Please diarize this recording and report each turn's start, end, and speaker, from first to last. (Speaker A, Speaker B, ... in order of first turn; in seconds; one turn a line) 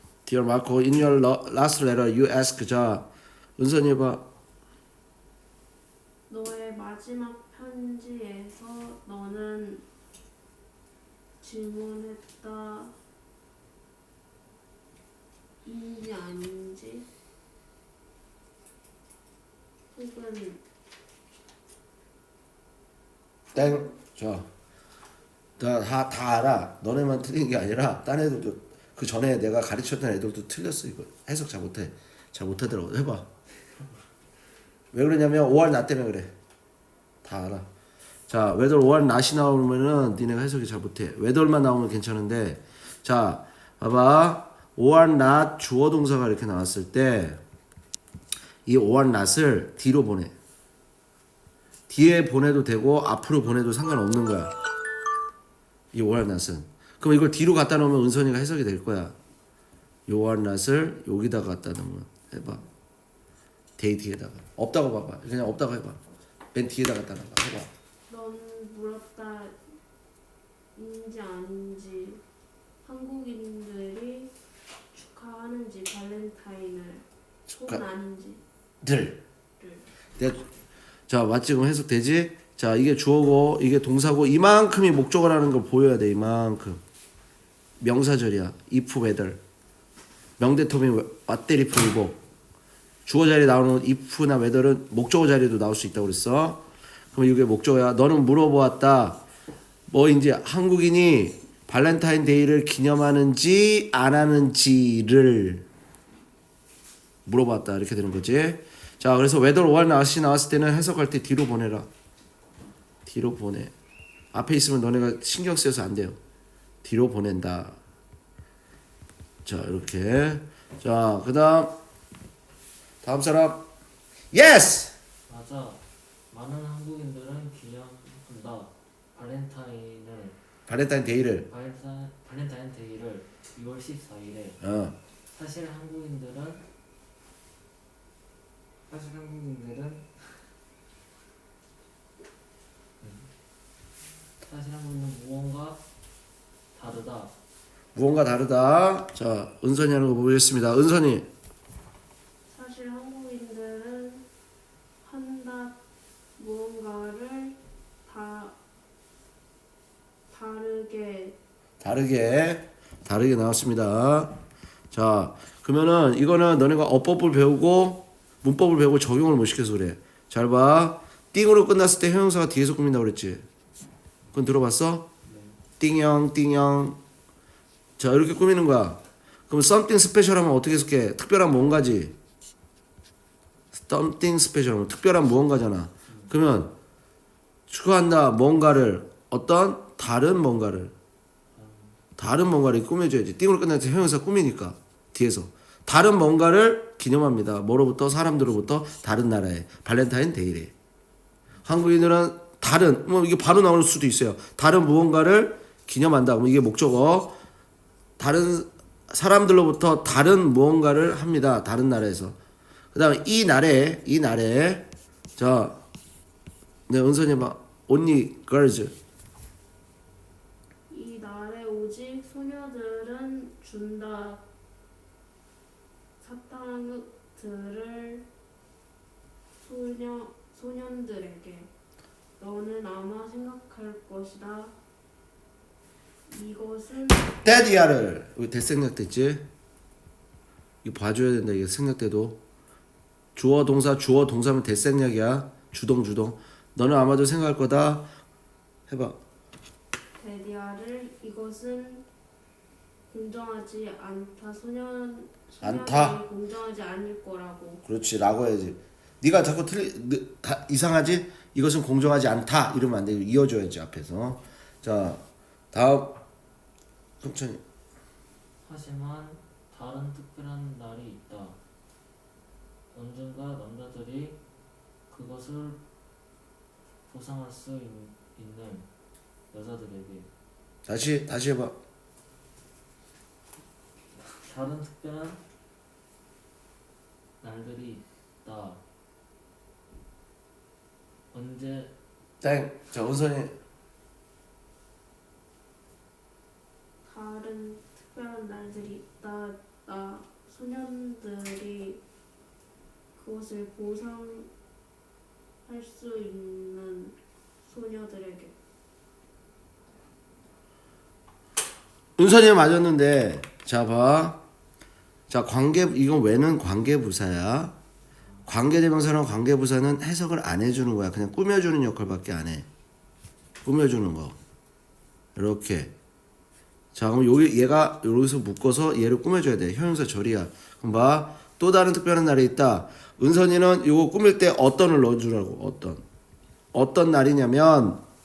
Speaker A: 0.2-3.1
Speaker A: 3.6-4.2
Speaker B: 6.3-9.8
Speaker B: 11.4-12.9
Speaker B: 15.6-17.1
Speaker B: 19.9-20.6
Speaker A: 23.5-24.5
Speaker A: 25.6-33.3
Speaker A: 34.9-36.3
Speaker A: 37.2-37.7
Speaker A: 38.3-47.4
Speaker A: 48.7-50.3
Speaker A: 51.9-54.5
Speaker A: 55.9-59.1
Speaker A: 60.1-62.6
Speaker A: 63.8-66.0
Speaker A: 66.5-67.7
Speaker B: 68.1-69.6
Speaker B: 70.8-72.2
Speaker B: 72.8-74.3
Speaker B: 74.9-78.4
Speaker A: 77.5-77.8
Speaker A: 78.8-79.2
Speaker B: 79.6-79.9
Speaker A: 80.2-80.4
Speaker A: 81.1-86.8
Speaker A: 87.8-89.4
Speaker A: 90.4-92.2
Speaker A: 93.0-96.6
Speaker A: 97.1-99.2
Speaker A: 99.9-105.7
Speaker A: 107.2-111.9
Speaker A: 113.0-113.7
Speaker A: 114.3-116.2
Speaker A: 116.8-117.8
Speaker A: 119.4-121.7
Speaker A: 123.0-123.7
Speaker A: 124.3-124.9
Speaker C: 125.3-130.3
Speaker A: 130.7-131.5
Speaker C: 131.4-134.6
Speaker A: 134.6-134.9
Speaker C: 135.3-136.6
Speaker C: 138.9-140.5
Speaker C: 143.0-143.3
Speaker C: 144.4-145.8
Speaker C: 146.7-147.3
Speaker A: 147.9-151.3
Speaker B: 152.5-154.2
Speaker B: 155.0-155.8
Speaker B: 156.4-158.6
Speaker B: 160.3-161.3
Speaker A: 161.8-164.3
Speaker A: 164.9-173.4
Speaker A: 174.3-175.1
Speaker C: 175.2-175.6
Speaker A: 175.8-177.0
Speaker A: 178.0-182.2
Speaker A: 183.7-186.7
Speaker C: 186.1-186.3
Speaker A: 187.7-190.9
Speaker C: 191.5-192.0
Speaker A: 192.2-200.7
Speaker A: 201.6-207.3
Speaker A: 208.2-212.3
Speaker A: 212.9-214.8
Speaker A: 215.4-215.8
Speaker A: 216.9-218.9
Speaker B: 220.9-224.4
Speaker B: 226.2-228.3
Speaker B: 229.6-231.7
Speaker B: 232.4-234.8
Speaker B: 236.3-237.3
Speaker A: 237.3-239.4
Speaker A: 240.8-242.4
Speaker A: 243.3-248.1
Speaker A: 248.9-249.2
Speaker B: 250.2-252.1
Speaker B: 253.1-257.8
Speaker A: 255.6-256.2
Speaker A: 257.8-266.2
Speaker A: 267.2-267.6
Speaker C: 268.6-271.6
Speaker C: 272.9-274.4
Speaker C: 275.1-275.8
Speaker C: 277.1-278.9
Speaker C: 279.5-280.3
Speaker A: 280.9-281.8
Speaker C: 284.1-285.4
Speaker C: 287.4-288.8
Speaker C: 291.3-291.9
Speaker A: 292.4-293.5
Speaker B: 297.0-302.0
Speaker B: 303.1-304.5
Speaker B: 305.6-308.6
Speaker A: 312.2-314.4
Speaker A: 315.3-317.8
Speaker A: 318.4-322.7
Speaker A: 323.6-324.4
Speaker A: 325.4-325.9
Speaker A: 326.9-336.0
Speaker A: 336.7-338.0